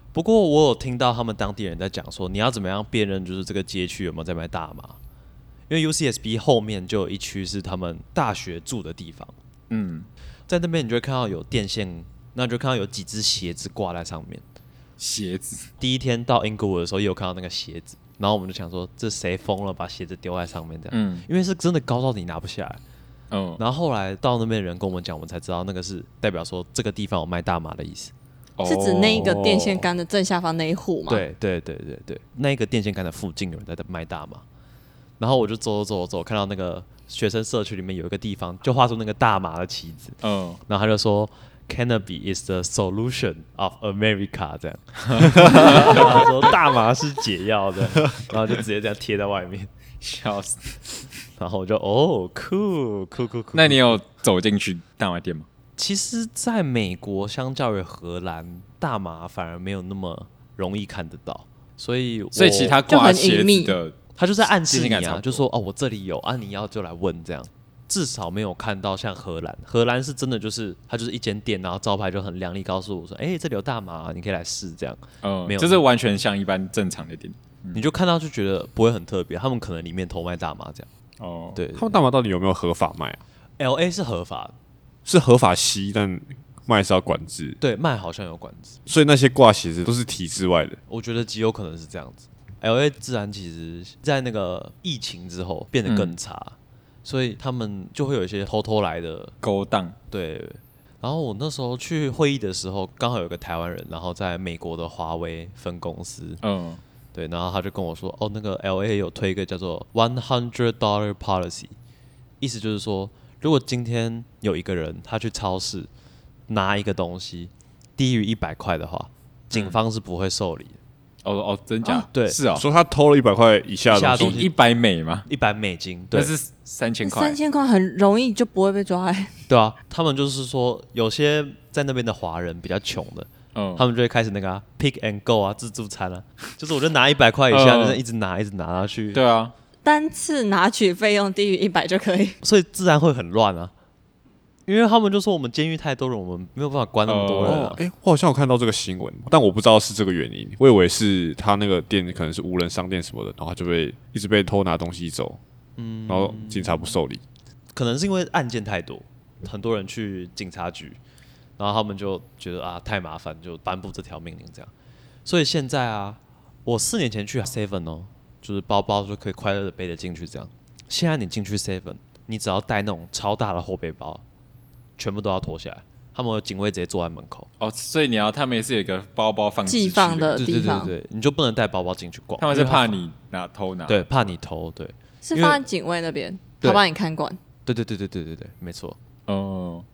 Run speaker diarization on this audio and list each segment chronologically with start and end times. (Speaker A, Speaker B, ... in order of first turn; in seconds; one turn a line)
Speaker A: 0.1-5.0
Speaker A: 5.7-9.3
Speaker B: 9.7-10.1
Speaker A: 10.5-14.4
Speaker B: 15.0-15.7
Speaker A: 15.8-22.8
Speaker B: 20.9-21.3
Speaker B: 23.3-23.6
Speaker A: 23.6-28.1
Speaker B: 28.6-29.5
Speaker C: 28.6-31.2
Speaker D: 29.1-29.9
Speaker A: 31.1-34.4
Speaker A: 35.2-49.7
Speaker B: 40.2-40.6
Speaker B: 45.1-46.0
Speaker B: 50.0-51.0
Speaker A: 51.4-54.0
Speaker B: 53.5-55.5
Speaker A: 55.8-62.8
Speaker B: 62.3-64.0
Speaker C: 62.9-63.8
Speaker A: 64.2-75.8
Speaker B: 64.5-65.4
Speaker B: 75.2-77.8
Speaker A: 77.7-80.9
Speaker B: 81.2-81.6
Speaker A: 81.5-82.0
Speaker D: 81.8-83.2
Speaker A: 83.6-84.5
Speaker D: 85.0-87.6
Speaker A: 87.6-88.8
Speaker D: 88.9-90.8
Speaker A: 90.9-99.3
Speaker B: 95.9-96.1
Speaker B: 99.4-100.0
Speaker A: 100.1-106.4
Speaker B: 106.4-106.8
Speaker A: 107.1-111.8
Speaker A: 112.4-115.9
Speaker A: 116.5-120.8
Speaker B: 121.2-122.7
Speaker A: 122.1-122.4
Speaker D: 122.5-124.5
Speaker A: 123.9-124.5
Speaker B: 124.1-125.3
Speaker A: 125.3-126.3
Speaker B: 126.1-127.4
Speaker C: 127.0-129.4
Speaker A: 129.5-139.2
Speaker B: 133.6-133.8
Speaker B: 137.5-138.0
Speaker B: 139.1-139.5
Speaker C: 139.8-142.4
Speaker A: 142.4-143.7
Speaker A: 144.7-147.8
Speaker B: 147.1-147.7
Speaker D: 147.4-155.4
Speaker A: 155.8-157.0
Speaker D: 156.1-157.2
Speaker A: 157.7-161.0
Speaker A: 161.6-164.7
Speaker A: 165.3-174.2
Speaker A: 175.0-177.5
Speaker B: 177.6-180.5
Speaker C: 179.7-180.9
Speaker A: 180.3-182.9
Speaker B: 182.4-184.2
Speaker A: 183.9-185.6
Speaker C: 185.2-187.4
Speaker A: 187.7-189.0
Speaker B: 189.3-189.9